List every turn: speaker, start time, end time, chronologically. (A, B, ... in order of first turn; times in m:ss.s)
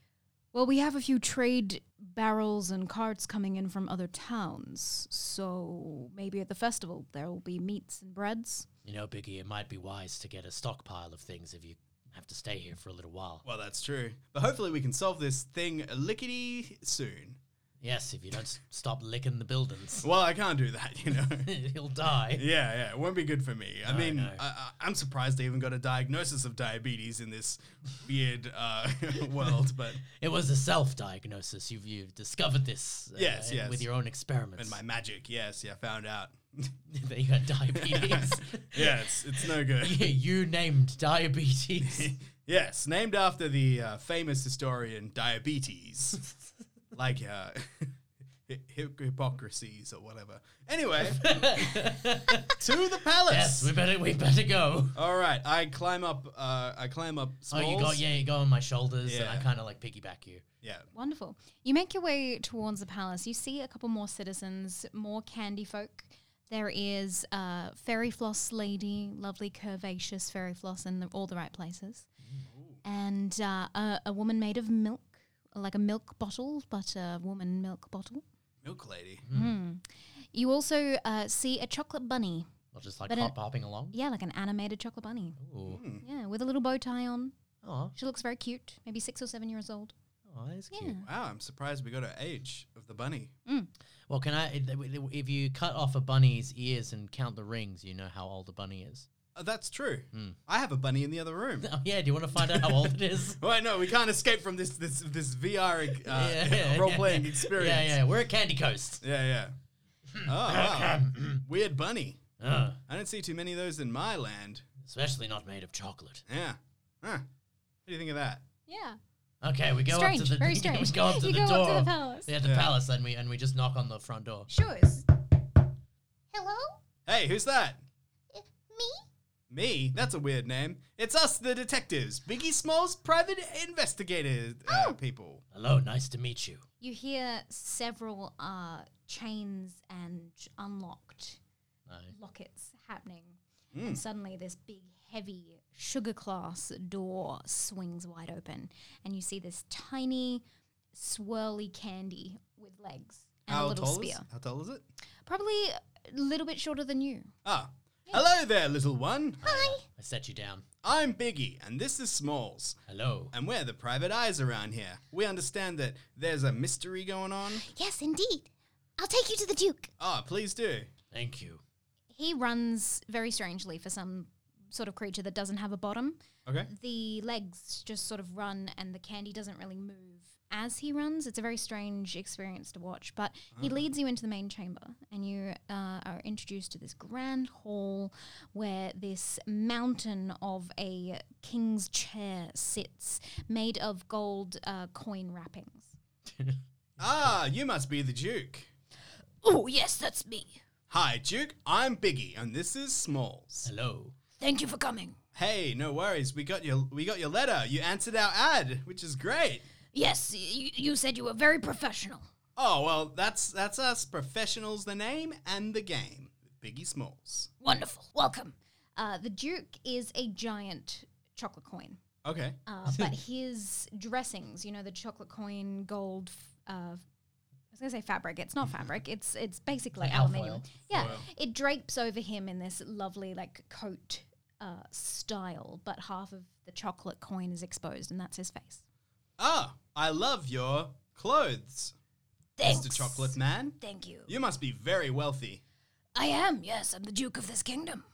0:00.5-0:08.7 A
0:08.8-0:13.4 B
0:13.4-0:17.4 C
0:17.8-0:20.1 B
0:20.0-0:21.5 C
0:21.4-0:22.4 B
0:22.4-0:30.0 C
0:23.8-0:24.4 B
0:30.1-0:34.8 B
0:33.2-0:33.9 C
0:34.6-0:36.7 C
0:36.9-0:42.1 B
0:37.7-0:40.1 C
0:41.8-0:46.2 C
0:46.9-0:53.7 C
0:51.1-0:52.6 B
0:53.3-0:55.0 B
0:54.9-0:58.0 C
0:57.5-1:00.4 B
0:59.0-0:59.5 C
1:00.6-1:00.9 C
1:00.9-1:12.1 A
1:12.2-1:12.5 B
1:12.5-1:12.8 C
1:12.8-1:18.2 A
1:18.6-1:19.2 C
1:19.3-1:19.6 B
1:19.3-1:22.5 A
1:22.7-1:24.0 B
1:23.1-1:23.3 A
1:23.9-1:25.4 A
1:25.4-1:25.8 B
1:25.6-1:26.0 C
1:26.0-1:27.3 A
1:27.6-1:27.9 B
1:28.0-1:29.9 A
1:30.3-1:31.0 B
1:30.7-1:31.1 A
1:31.0-1:33.3 C
1:34.1-1:39.1 B
1:39.3-1:41.7 C
1:40.1-1:40.4 B
1:41.6-1:43.4 B
1:42.3-1:48.0 C
1:45.9-1:49.0 B
1:49.0-1:49.5 C
1:50.1-1:51.4 B
1:50.2-1:52.2 C
1:52.4-1:52.8 B
1:52.9-1:54.6 C
1:54.8-1:56.2 B
1:56.3-1:57.2 C
1:57.8-1:58.4 C
1:58.7-1:59.0 A
1:59.4-2:04.5 B
1:59.8-2:02.3 A
2:02.4-2:02.7 C
2:04.5-2:05.2 A
2:06.3-2:06.8 A
2:07.0-2:07.8 C
2:08.3-2:09.0 A
2:09.5-2:15.4 C
2:14.7-2:15.0 A
2:15.5-2:16.6 B
2:16.8-2:21.4 A
2:21.9-2:22.1 B
2:22.1-2:30.4 A
2:23.7-2:24.0 C
2:30.9-2:34.2 A
2:33.5-2:34.8 C
2:35.2-2:37.3 A
2:37.4-2:39.4 C
2:39.4-2:40.6 B
2:39.4-2:39.8 A
2:40.8-2:42.8 C
2:42.9-2:43.3 B
2:43.3-2:47.7 C
2:47.6-2:49.9 A
2:50.0-2:50.9 C
2:51.1-2:51.6 B
2:52.1-3:15.9 A
2:56.4-2:56.7 C
3:03.5-3:03.8 C
3:17.0-3:18.7 C
3:19.4-3:20.6 A
3:20.9-3:23.7 C
3:23.6-3:24.2 B
3:24.4-3:25.2 A
3:25.3-3:29.6 C
3:29.9-3:32.3 A
3:32.6-3:37.5 C
3:37.6-3:42.0 A
3:42.2-3:42.6 C
3:42.6-3:47.0 A
3:47.7-3:58.8 A
3:49.9-3:51.2 B
3:50.9-3:51.3 C
3:59.4-4:01.9 C
4:02.6-4:04.3 A
4:02.6-4:05.6 C
4:06.1-4:08.0 A